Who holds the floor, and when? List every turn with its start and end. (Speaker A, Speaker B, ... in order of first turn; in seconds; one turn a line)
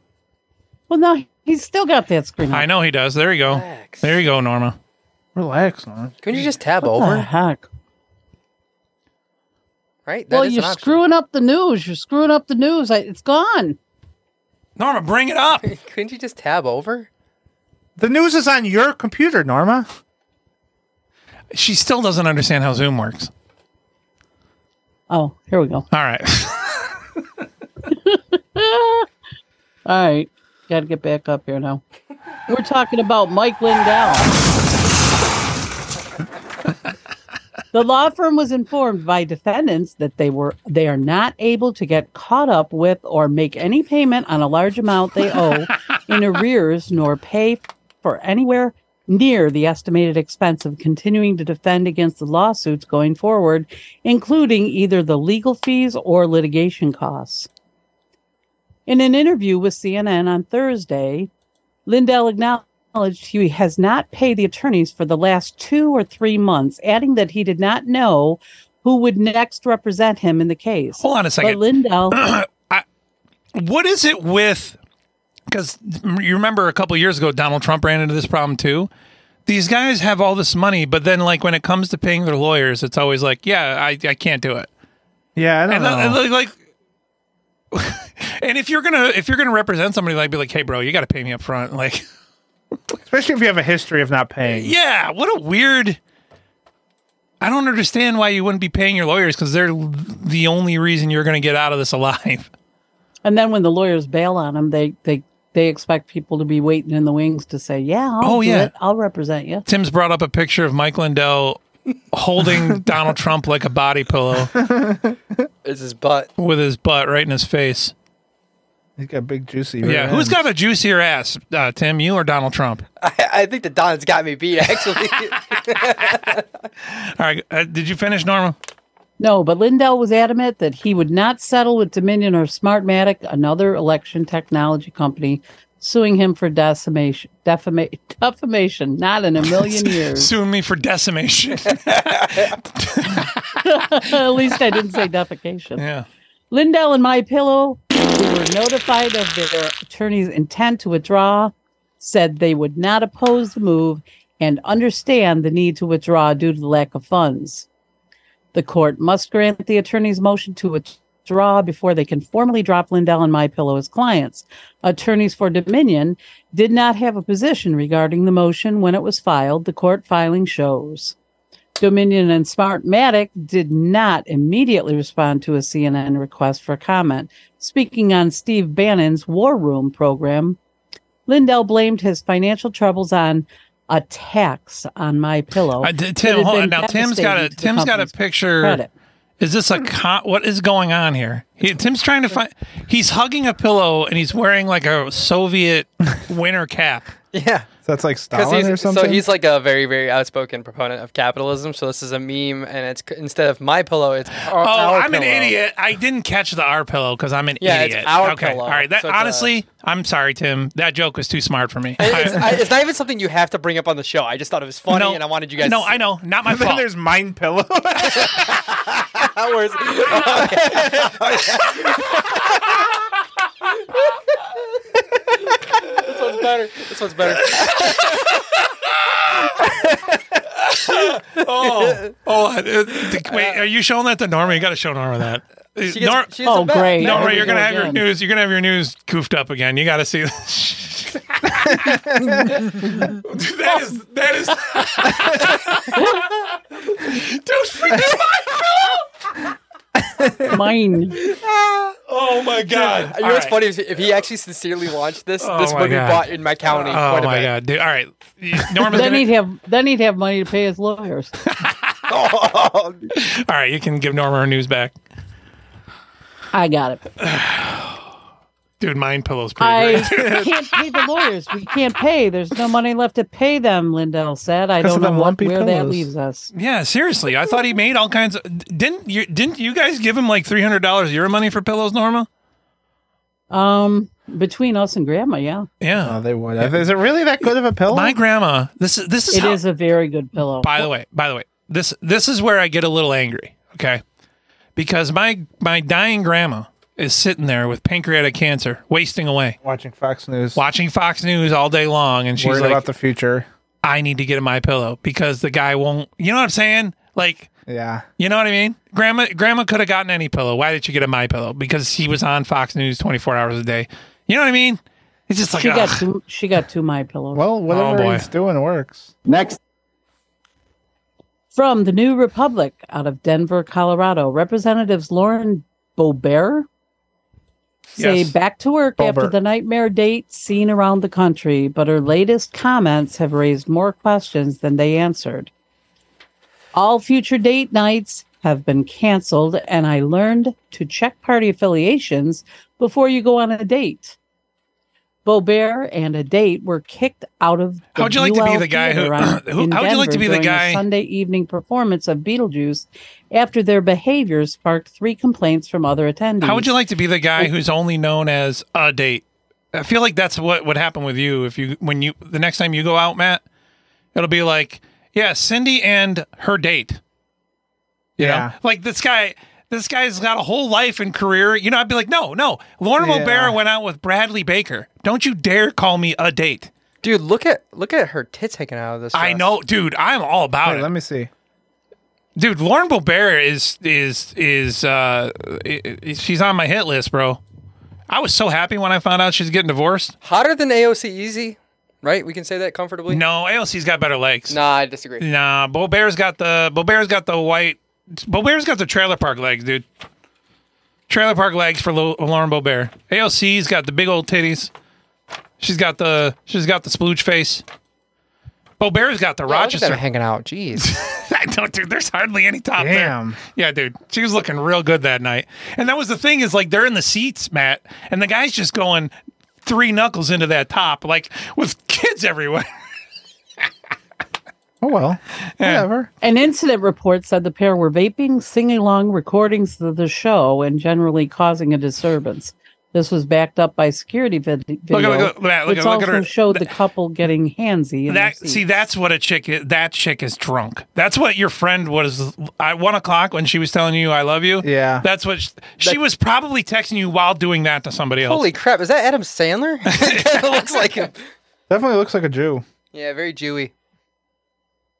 Speaker A: 0.9-2.7
Speaker B: 2.5-4.8
Speaker C: 3.4-4.2
Speaker D: 5.3-6.2
Speaker C: 6.2-7.3
Speaker A: 6.8-7.6
Speaker C: 10.1-11.0
Speaker A: 10.3-13.8
Speaker B: 14.8-15.7
Speaker C: 15.6-17.1
Speaker D: 18.0-19.9
Speaker B: 21.5-23.3
Speaker A: 25.1-25.9
Speaker B: 25.9-26.7
Speaker A: 27.9-29.1
Speaker A: 29.9-31.8
Speaker A: 32.5-34.3
Speaker A: 37.7-57.5
Speaker A: 58.9-61.3
Speaker A: 61.9-72.2
Speaker B: 71.0-72.8
Speaker B: 73.5-74.8
Speaker B: 75.5-78.9
Speaker B: 79.5-84.7
Speaker D: 85.3-86.2
Speaker B: 85.7-86.5
Speaker B: 87.7-92.0
Speaker D: 93.0-94.7
Speaker B: 94.5-96.0
Speaker B: 97.4-102.5
Speaker A: 103.2-109.6
Speaker B: 108.2-108.7
Speaker B: 109.7-111.6
Speaker B: 112.1-114.5
Speaker D: 114.5-115.2
Speaker C: 115.6-116.3
Speaker B: 116.4-117.9
Speaker D: 119.0-120.4
Speaker B: 119.8-122.8
Speaker C: 123.0-126.4
Speaker B: 126.8-128.6
Speaker A: 129.2-140.3
Speaker B: 139.5-143.6
Speaker A: 143.6-145.8
Speaker B: 145.8-146.1
Speaker A: 146.5-157.7
Speaker A: 158.5-171.1
Speaker A: 171.8-180.6
Speaker A: 181.3-188.9
Speaker B: 185.8-188.8
Speaker B: 189.4-197.1
Speaker C: 197.3-197.7
Speaker D: 197.8-199.2
Speaker C: 198.3-205.2
Speaker B: 204.5-212.6
Speaker D: 204.8-205.5
Speaker C: 207.6-209.5
Speaker C: 212.0-216.0
Speaker B: 214.9-216.8
Speaker D: 216.4-218.6
Speaker C: 219.0-221.9
Speaker C: 226.0-228.2
Speaker B: 227.5-228.2
Speaker B: 229.3-229.6
Speaker B: 230.6-236.3
Speaker C: 231.6-232.0
Speaker C: 233.2-233.6
Speaker C: 235.9-237.6
Speaker A: 236.4-238.0
Speaker B: 237.0-242.0
Speaker D: 241.8-242.3
Speaker B: 242.6-249.0
Speaker D: 250.2-250.5
Speaker A: 250.5-251.2
Speaker B: 252.1-253.7
Speaker C: 252.7-257.5
Speaker B: 255.4-259.3
Speaker A: 258.9-261.3
Speaker C: 262.1-263.0
Speaker B: 263.1-264.9
Speaker A: 266.5-267.1
Speaker B: 267.2-268.0
Speaker B: 268.8-271.0
Speaker A: 269.6-276.5
Speaker D: 274.8-276.1
Speaker B: 276.5-282.3
Speaker A: 283.5-285.7
Speaker B: 285.8-286.9
Speaker D: 286.0-288.1
Speaker B: 287.4-289.6
Speaker A: 289.3-290.9
Speaker B: 290.6-294.0
Speaker B: 294.8-299.6
Speaker D: 299.6-300.6
Speaker B: 300.5-302.8
Speaker D: 302.4-303.5
Speaker B: 303.8-307.5
Speaker D: 307.7-308.0
Speaker B: 308.2-316.0
Speaker A: 315.6-317.5
Speaker D: 317.3-319.1
Speaker B: 317.7-318.2
Speaker A: 321.5-326.6
Speaker A: 327.9-335.5
Speaker B: 328.0-328.3
Speaker D: 329.0-329.3
Speaker A: 336.7-344.1
Speaker A: 345.2-356.7
Speaker B: 347.9-350.8
Speaker B: 356.4-363.4
Speaker B: 364.1-367.0
Speaker B: 368.2-376.7
Speaker D: 368.2-368.5
Speaker D: 373.0-373.6
Speaker C: 377.0-379.5
Speaker B: 379.1-380.9
Speaker D: 380.6-381.3
Speaker B: 382.4-387.4
Speaker B: 388.1-390.1
Speaker C: 390.2-393.2
Speaker B: 393.1-394.6
Speaker C: 394.5-395.2
Speaker B: 395.2-399.8
Speaker B: 401.1-404.7
Speaker B: 405.6-407.6
Speaker B: 408.8-410.0
Speaker C: 409.5-410.9
Speaker B: 410.8-422.7
Speaker D: 412.8-413.4
Speaker D: 424.8-426.1
Speaker B: 425.6-425.9
Speaker A: 426.2-438.6
Speaker B: 434.9-436.7
Speaker B: 438.1-448.4
Speaker D: 444.6-445.1
Speaker C: 448.2-451.2
Speaker B: 449.9-451.0
Speaker D: 451.7-452.6
Speaker C: 452.9-453.7